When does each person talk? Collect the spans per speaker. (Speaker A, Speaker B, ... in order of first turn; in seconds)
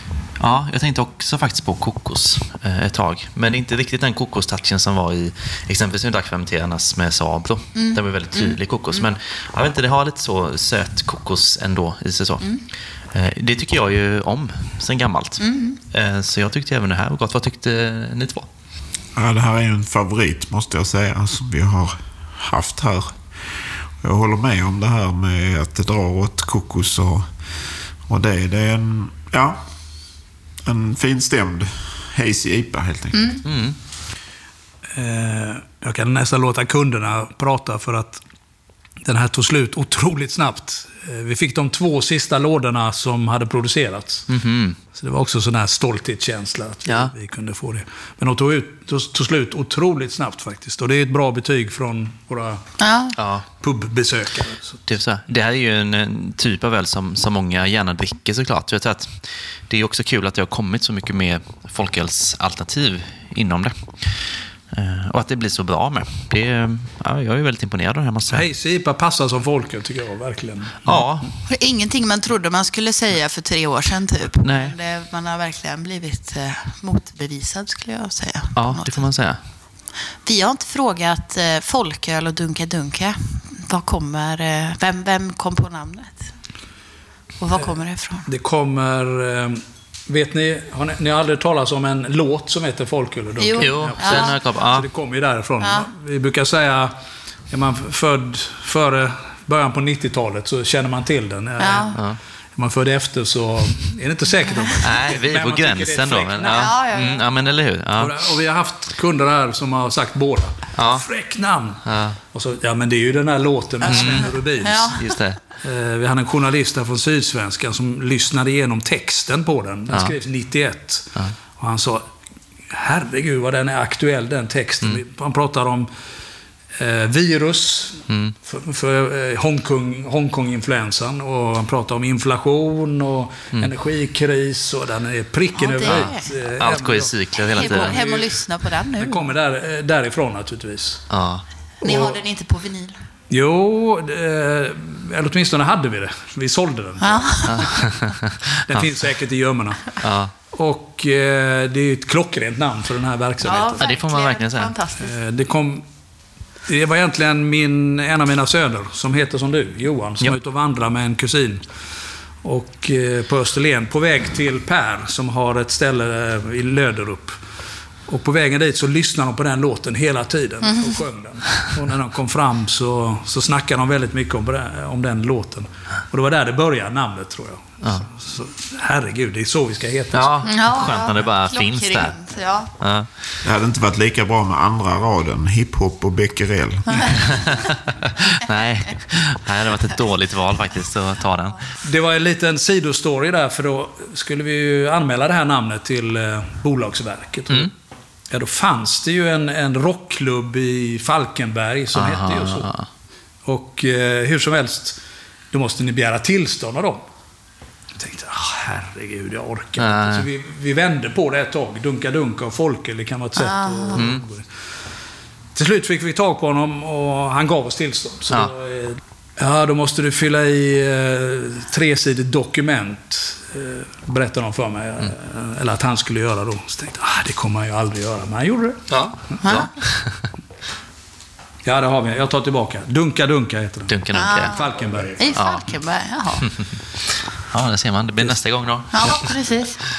Speaker A: 0.4-18.5, 33.4-33.8, 44.3-44.8, 46.9-47.1, 53.2-53.5, 54.9-68.5, 70.8-71.4, 74.4-74.8, 78.5-79.4, 93.6-94.9, 101.9-102.2, 104.8-108.2, 110.8-111.1, 111.8-112.2, 113.8-114.3, 114.9-115.4, 119.9-120.2, 128.1-128.3, 135.8-138.0, 141.1-141.4, 147.4-149.0, 150.0-150.3, 153.6-154.7, 177.8-178.1, 180.1-182.3, 182.8-183.3, 187.2-191.7, 201.9-202.9, 209.8-210.3, 213.9-214.2, 228.9-230.3, 233.9-234.6, 235.3-235.7, 236.4-239.4
Speaker B: 7.7-9.0, 15.4-15.8, 33.1-33.4, 52.8-53.2, 71.5-79.1, 80.1-86.3, 87.4-88.3, 93.4-94.4, 95.6-95.9, 101.6-102.0, 106.5-107.2, 113.8-115.2, 135.5-136.3, 137.6-139.3, 141.8-142.9, 147.0-147.7, 153.4-155.1, 170.6-171.0, 180.4-182.7, 213.4-214.1, 229.4-229.7, 234.1-236.5, 238.9-239.8
Speaker C: 19.1-27.3, 28.0-29.6, 30.6-33.4, 183.4-187.5, 234.8-235.3
Speaker D: 34.9-38.2, 39.0-44.3, 44.9-52.7, 53.5-54.9, 68.3-71.3, 88.2-96.9, 97.5-106.7, 108.0-115.0, 115.6-122.0, 122.7-125.9, 126.7-138.4, 138.9-141.1, 141.8-142.2, 143.3-147.8, 148.7-153.9, 155.0-155.8, 156.7-161.7, 162.4-167.4, 168.1-180.5, 191.8-197.7, 198.3-202.7, 203.4-205.0, 205.5-207.0, 207.9-214.5, 215.5-229.4, 231.6-235.2